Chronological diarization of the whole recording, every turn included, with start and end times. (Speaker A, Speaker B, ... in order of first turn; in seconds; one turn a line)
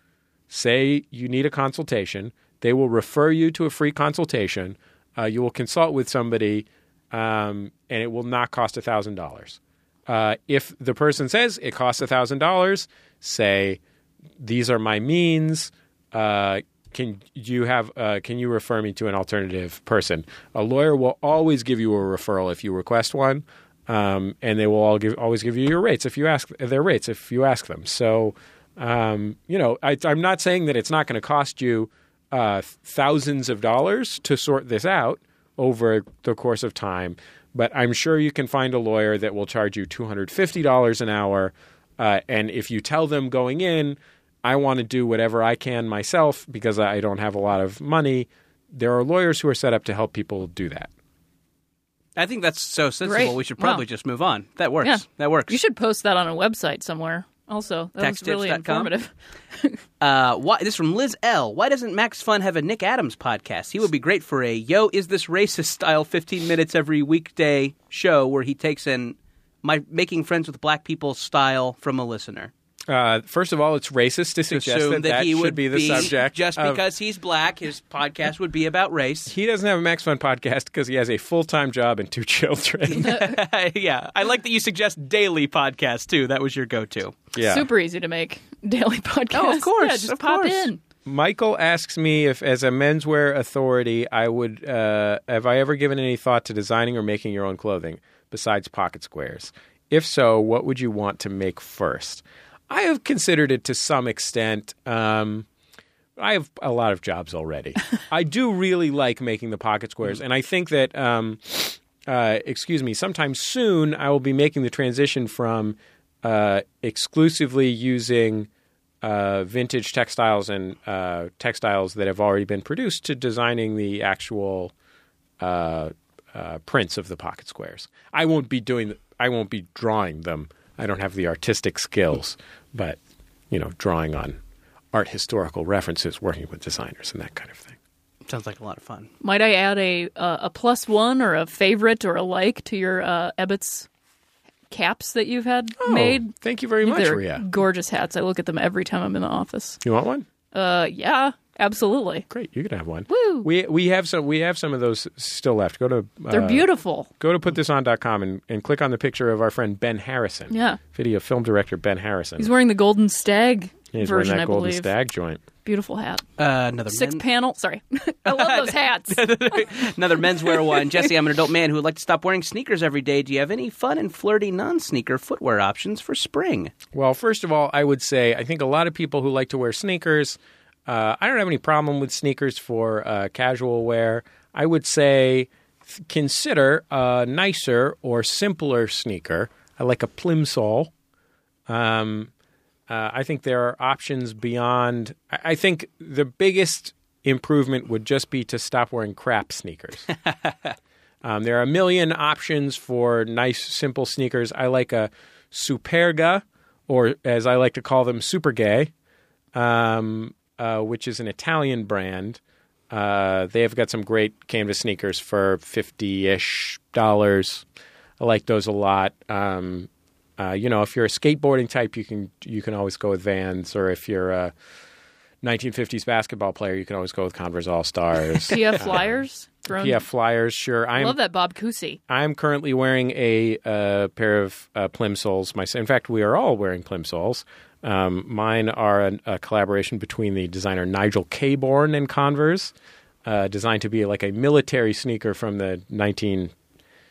Speaker A: 0.5-13.8
Speaker A: 14.4-50.9
Speaker B: 52.1-55.6
Speaker C: 53.0-53.8
Speaker C: 54.8-59.8
Speaker B: 58.0-58.9
Speaker B: 60.0-72.5
Speaker A: 72.9-76.8
Speaker B: 74.5-79.3
Speaker A: 79.3-83.2
Speaker B: 82.9-87.2
Speaker A: 87.3-87.7
Speaker C: 87.4-90.8
Speaker B: 89.3-90.7
Speaker A: 91.1-105.5
Speaker A: 106.2-118.5
Speaker A: 119.0-124.7
Speaker A: 125.4-133.0
Speaker A: 133.5-134.4
Speaker A: 134.9-137.8
Speaker B: 138.3-139.1
Speaker C: 139.2-143.9
Speaker C: 144.7-149.8
Speaker A: 145.8-147.4
Speaker A: 149.8-150.3
Speaker C: 150.5-152.3
Speaker A: 152.3-156.7
Speaker C: 153.1-153.5
Speaker C: 156.3-157.1
Speaker A: 157.2-162.5
Speaker C: 160.5-160.8
Speaker C: 162.4-164.9
Speaker A: 163.9-165.4
Speaker C: 165.6-166.2
Speaker B: 166.4-167.2
Speaker C: 166.9-169.2
Speaker B: 168.3-176.7
Speaker C: 170.6-171.1
Speaker A: 176.9-190.9
Speaker A: 191.7-192.3
Speaker A: 192.9-200.1
Speaker A: 201.2-208.9
Speaker A: 209.5-212.4
Speaker A: 212.9-217.6
Speaker A: 218.2-224.5
Speaker A: 225.4-231.2
Speaker C: 228.5-230.0
Speaker C: 231.0-232.0
Speaker A: 232.1-242.7
Speaker A: 243.2-246.5